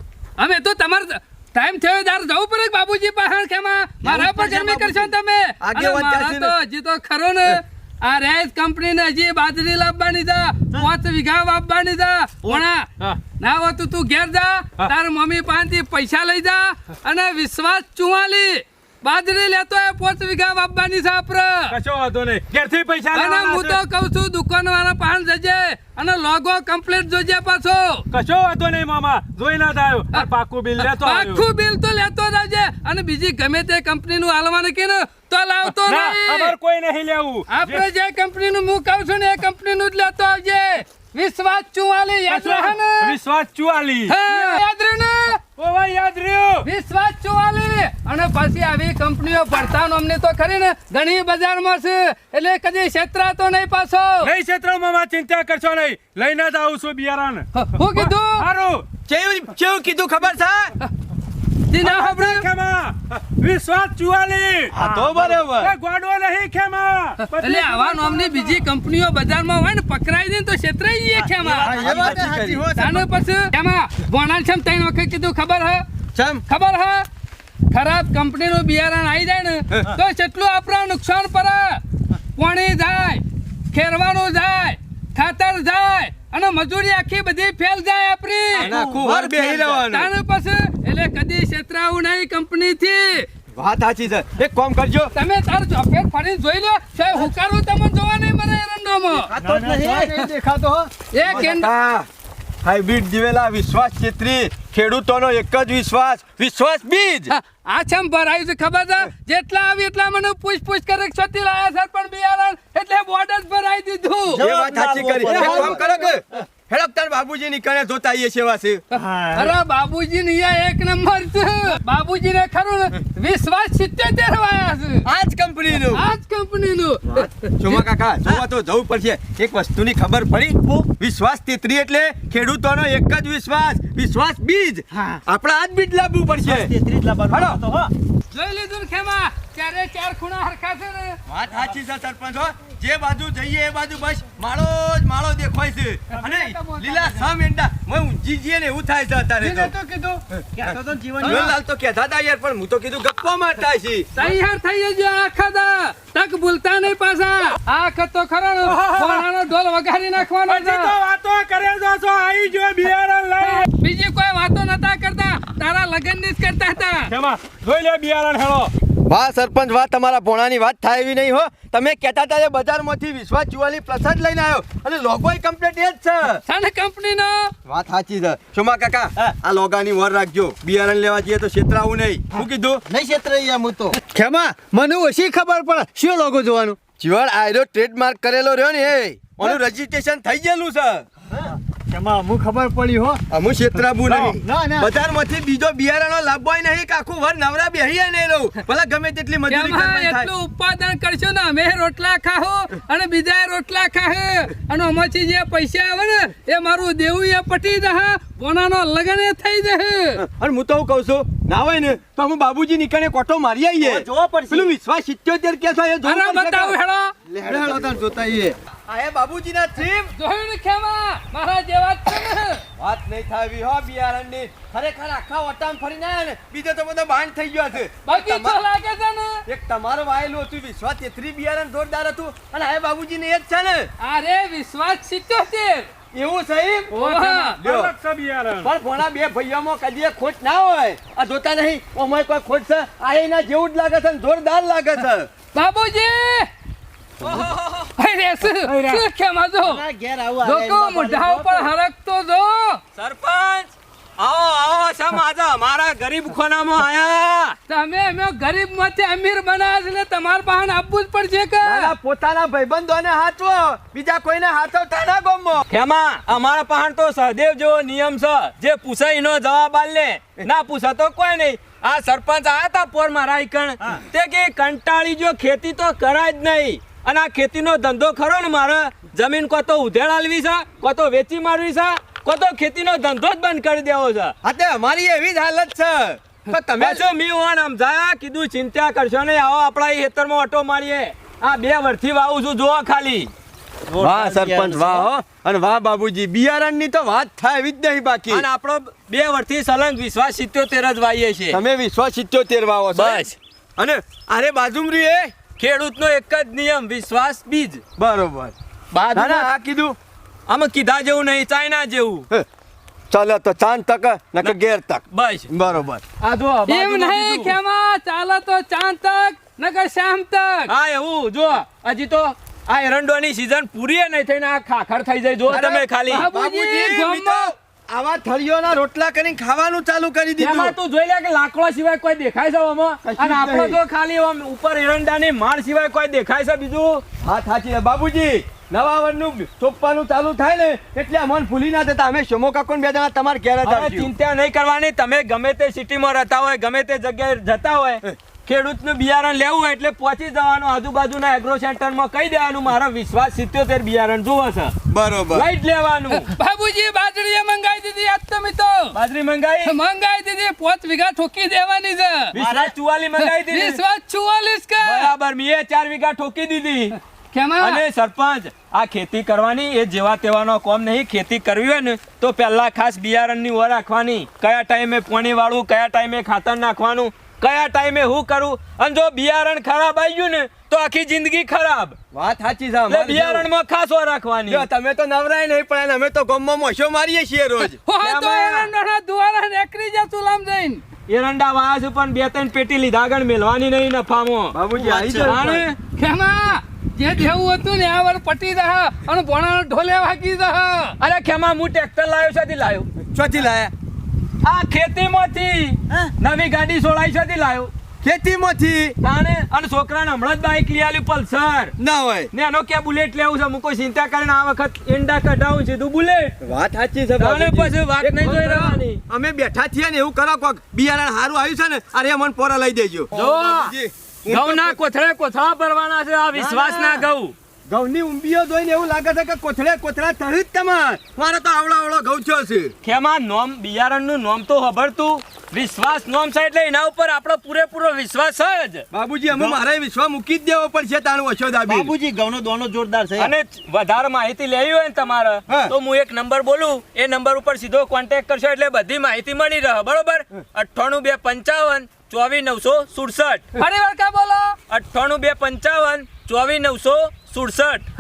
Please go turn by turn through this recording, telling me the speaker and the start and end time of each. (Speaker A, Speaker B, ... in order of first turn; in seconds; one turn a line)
Speaker A: 0.4-12.9
Speaker B: 4.0-5.1
Speaker B: 5.6-6.5
Speaker A: 13.4-21.7
Speaker C: 21.7-23.8
Speaker A: 23.1-28.1
Speaker C: 28.1-31.4
Speaker A: 30.8-36.5
Speaker C: 35.8-37.8
Speaker A: 37.5-43.1
Speaker C: 42.3-44.6
Speaker A: 44.1-45.4
Speaker C: 45.6-46.7
Speaker A: 46.6-54.3
Speaker C: 54.2-58.9
Speaker A: 57.6-58.4
Speaker B: 59.1-60.7
Speaker A: 61.7-62.5
Speaker C: 61.8-64.7
Speaker B: 64.7-65.7
Speaker D: 64.8-65.4
Speaker C: 65.6-68.6
Speaker A: 67.2-72.1
Speaker E: 71.2-72.3
Speaker D: 71.6-73.1
Speaker B: 71.9-72.7
Speaker A: 72.8-75.8
Speaker B: 76.2-76.4
Speaker A: 76.5-77.1
Speaker A: 77.7-81.8
Speaker A: 82.4-88.7
Speaker B: 88.6-90.1
Speaker E: 88.6-89.6
Speaker D: 89.4-89.7
Speaker A: 89.8-93.3
Speaker B: 93.6-95.1
Speaker A: 95.2-99.3
Speaker E: 99.1-100.2
Speaker D: 99.4-100.9
Speaker A: 101.1-101.7
Speaker B: 101.2-102.1
Speaker B: 102.6-107.3
Speaker A: 107.3-114.5
Speaker E: 114.3-116.4
Speaker B: 114.4-118.8
Speaker D: 115.2-116.1
Speaker E: 118.9-119.6
Speaker A: 119.3-125.1
Speaker B: 125.0-126.1
Speaker A: 125.7-127.9
Speaker B: 127.2-136.7
Speaker E: 134.9-135.2
Speaker E: 136.4-137.9
Speaker B: 137.3-137.6
Speaker A: 138.3-141.2
Speaker B: 141.3-149.7
Speaker D: 146.1-147.3
Speaker D: 149.4-151.6
Speaker E: 150.6-151.6
Speaker B: 151.2-154.1
Speaker A: 154.2-160.9
Speaker C: 158.7-159.2
Speaker C: 160.5-163.7
Speaker A: 163.4-167.1
Speaker C: 167.1-168.7
Speaker B: 169.1-176.4
Speaker A: 176.4-177.5
Speaker B: 177.7-182.8
Speaker E: 182.9-184.0
Speaker D: 184.0-186.8
Speaker B: 187.0-191.1
Speaker D: 191.5-193.2
Speaker B: 193.3-200.3
Speaker D: 194.1-194.9
Speaker A: 199.5-210.2
Speaker B: 210.2-216.8
Speaker E: 213.8-214.7
Speaker A: 216.0-217.1
Speaker D: 217.3-218.6
Speaker E: 217.5-217.8
Speaker B: 218.9-220.1
Speaker A: 220.2-222.6
Speaker B: 222.8-228.6
Speaker A: 228.1-229.4
Speaker B: 229.5-233.9
Speaker A: 234.0-235.9
Speaker B: 236.1-236.9
Speaker A: 236.9-237.6
Speaker C: 236.9-238.7
Speaker B: 237.6-237.9
Speaker B: 238.6-245.3
Speaker A: 245.5-246.5
Speaker F: 247.2-247.9
Speaker A: 248.0-249.8
Speaker C: 248.4-249.0
Speaker E: 249.6-251.7
Speaker A: 250.4-252.8
Speaker F: 253.0-257.6
Speaker A: 257.7-261.9
Speaker B: 261.6-265.7
Speaker F: 265.7-284.4
Speaker B: 284.4-287.1
Speaker F: 286.5-293.3
Speaker E: 293.9-295.1
Speaker B: 294.0-298.5
Speaker F: 298.3-301.6
Speaker B: 301.5-305.4
Speaker F: 302.9-303.4
Speaker F: 305.4-307.8
Speaker B: 308.0-308.6
Speaker F: 308.9-309.5
Speaker B: 309.1-310.0
Speaker F: 310.5-312.3
Speaker B: 313.1-316.0
Speaker F: 315.1-315.5
Speaker F: 316.2-317.6
Speaker A: 316.7-320.7
Speaker F: 320.7-326.3
Speaker B: 325.5-330.8
Speaker A: 325.6-327.5
Speaker F: 330.4-337.1
Speaker B: 333.0-333.8
Speaker B: 337.2-344.1
Speaker F: 343.6-356.3
Speaker B: 354.9-355.5
Speaker A: 356.3-359.0
Speaker F: 358.9-359.7
Speaker A: 359.6-362.3
Speaker F: 362.3-363.8
Speaker E: 362.4-362.7
Speaker A: 363.2-365.1
Speaker F: 364.8-366.9
Speaker A: 367.3-367.8
Speaker F: 367.6-382.0
Speaker B: 382.1-383.5
Speaker F: 382.9-384.7
Speaker B: 384.5-387.9
Speaker A: 387.6-390.8
Speaker F: 388.0-388.5
Speaker F: 391.1-395.8
Speaker B: 394.5-395.7
Speaker E: 394.8-395.4
Speaker A: 396.0-401.0
Speaker F: 401.0-402.9
Speaker B: 403.0-403.7
Speaker F: 404.4-407.7
Speaker B: 408.0-409.0
Speaker F: 409.0-411.7
Speaker B: 411.8-412.3
Speaker F: 412.3-416.4
Speaker B: 416.4-424.8
Speaker F: 417.2-419.0
Speaker F: 423.1-427.3
Speaker B: 426.3-427.1
Speaker B: 427.7-432.7
Speaker F: 432.8-438.9
Speaker B: 438.9-441.9
Speaker E: 441.7-443.3
Speaker F: 443.2-453.5
Speaker B: 445.5-445.7
Speaker A: 453.6-454.6
Speaker F: 454.7-457.9